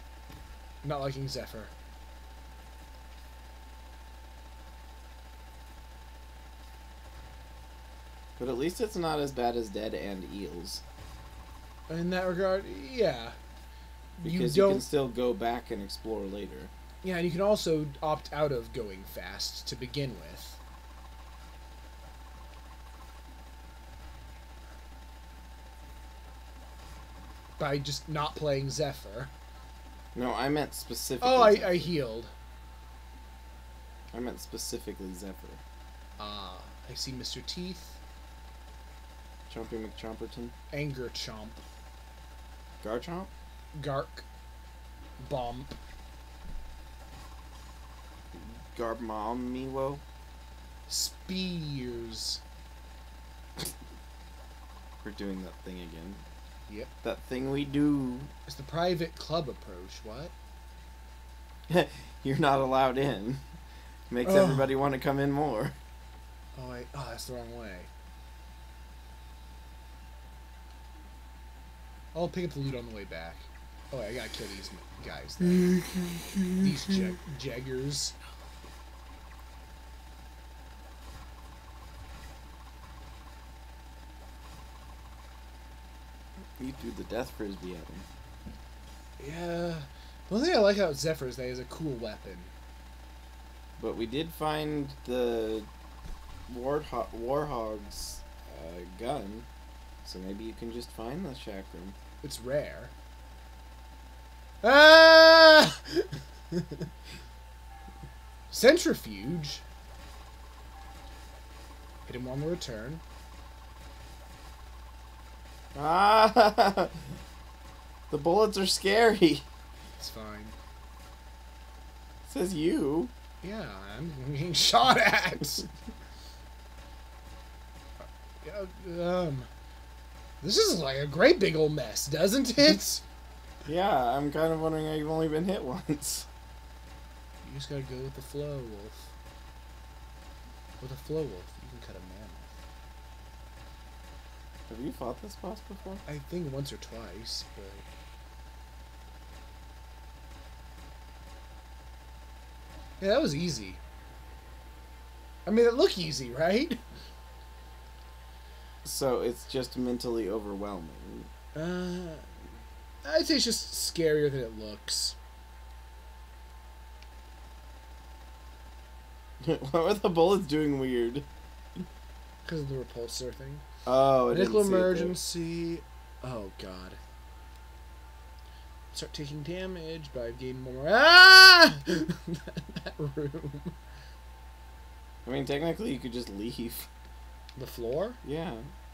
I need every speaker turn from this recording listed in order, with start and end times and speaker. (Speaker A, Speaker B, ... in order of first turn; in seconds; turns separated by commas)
Speaker A: 0.8-1.7, Speaker B: 8.4-10.8, Speaker A: 11.9-13.4, Speaker A: 14.2-14.8, Speaker B: 14.2-16.7, Speaker A: 17.0-20.6, Speaker A: 27.6-29.3, Speaker B: 30.1-31.9, Speaker A: 31.2-32.3, Speaker B: 34.1-35.6, Speaker A: 36.2-38.0, Speaker B: 39.5-40.5, Speaker A: 40.7-41.6, Speaker B: 42.8-43.3, Speaker A: 43.7-44.3, Speaker A: 45.2-45.8, Speaker B: 48.3-50.0, Speaker A: 50.9-52.4, Speaker B: 55.0-56.2, Speaker B: 57.0-58.3, Speaker A: 58.5-60.3, Speaker B: 61.7-63.4, Speaker B: 64.1-65.8, Speaker A: 64.2-64.7, Speaker A: 66.5-67.9, Speaker A: 72.1-75.9, Speaker B: 75.7-76.7, Speaker A: 76.6-78.2, Speaker B: 86.6-88.1, Speaker A: 89.2-92.5, Speaker B: 93.8-95.7, Speaker B: 96.5-99.5, Speaker B: 100.0-102.0, Speaker A: 102.2-102.9, Speaker A: 104.6-106.9, Speaker A: 108.5-109.6, Speaker A: 112.1-113.0, Speaker B: 115.8-117.0, Speaker B: 118.1-119.5, Speaker A: 120.0-120.6, Speaker B: 122.2-123.1, Speaker A: 123.4-125.7, Speaker A: 128.4-129.5, Speaker A: 130.4-133.0, Speaker B: 133.7-136.3, Speaker A: 137.4-139.1, Speaker A: 140.8-142.6, Speaker B: 144.7-146.0, Speaker A: 146.1-147.9, Speaker A: 153.0-153.8, Speaker A: 155.5-156.8, Speaker B: 158.8-161.3, Speaker A: 161.5-162.3, Speaker A: 163.0-165.2, Speaker B: 169.4-171.3, Speaker A: 172.4-173.6, Speaker B: 173.8-175.2, Speaker A: 174.3-177.0, Speaker A: 178.9-183.8, Speaker B: 185.2-186.9, Speaker A: 187.6-188.2, Speaker B: 188.2-188.7